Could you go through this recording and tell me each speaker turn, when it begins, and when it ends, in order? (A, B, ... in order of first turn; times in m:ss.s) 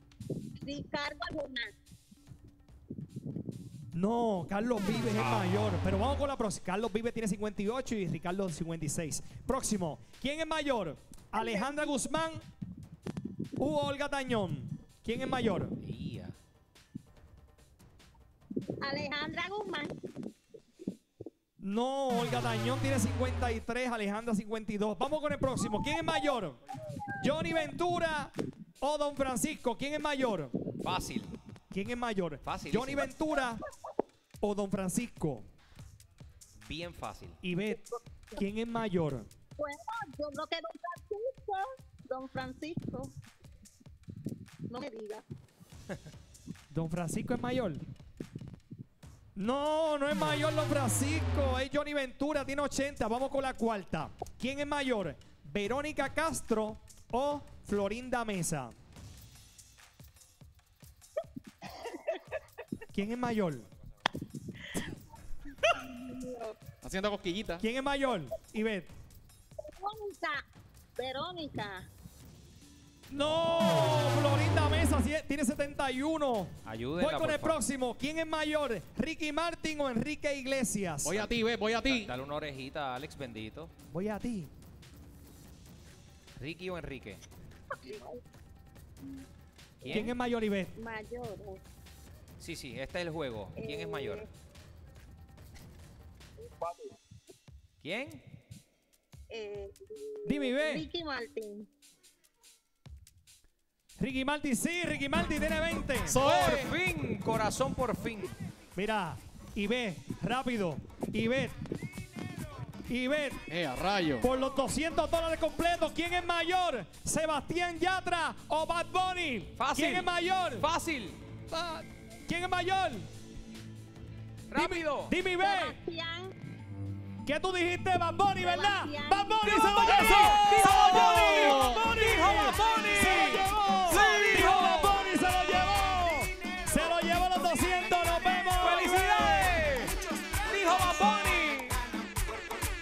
0:00.6-0:01.8 A
0:03.9-0:12.4 B
0:05.2-0:05.5 C
0:11.4-0:12.0 A
0:13.6-0:15.8 B
0:15.8-0:16.4 C
0:18.8-0:20.0 A
0:21.6-0:26.6 B
0:25.8-0:26.3 A
0:26.9-0:27.6 A
0:27.2-0:30.6 B
0:30.8-0:31.3 C
0:31.7-0:33.6 B
0:32.4-0:33.1 C
0:34.4-0:35.5 B
0:36.6-0:37.4 C
0:37.4-0:39.3 B
0:39.6-0:43.1 A
0:44.7-0:45.2 A
0:46.7-0:47.8 B
0:49.4-0:58.8 B
1:02.9-1:03.7 B
1:05.6-1:06.6 A
1:06.8-1:07.6 D
1:07.6-1:08.9 B
1:09.7-1:10.4 A
1:11.0-1:11.9 A
1:13.1-1:21.3 B
1:16.6-1:17.6 C
1:21.0-1:22.1 D
1:21.8-1:23.7 C
1:23.9-1:24.5 B
1:26.4-1:27.2 C
1:27.7-1:28.2 A
1:29.8-1:30.1 C
1:29.8-1:30.7 B
1:30.8-1:31.6 A
1:32.4-1:34.3 C
1:33.6-1:34.3 A
1:37.8-1:38.2 C
1:39.3-1:41.7 A
1:40.2-1:40.9 B
1:44.0-1:46.3 B
1:46.1-1:46.7 D
1:46.2-1:48.4 C
1:48.8-1:51.5 B
1:52.9-1:53.4 B
1:53.5-1:54.3 D
1:54.2-2:00.7 B
1:59.6-2:01.2 C
2:01.5-2:03.1 B
2:04.5-2:05.1 C
2:04.5-2:05.8 B
2:05.4-2:06.3 A
2:07.2-2:19.0 B
2:08.4-2:10.3 A
2:09.5-2:14.9 C
2:09.9-2:12.0 D
2:12.6-2:14.9 D
2:18.6-2:20.0 C
2:18.7-2:19.7 D
2:20.5-2:21.8 C
2:20.5-2:21.4 D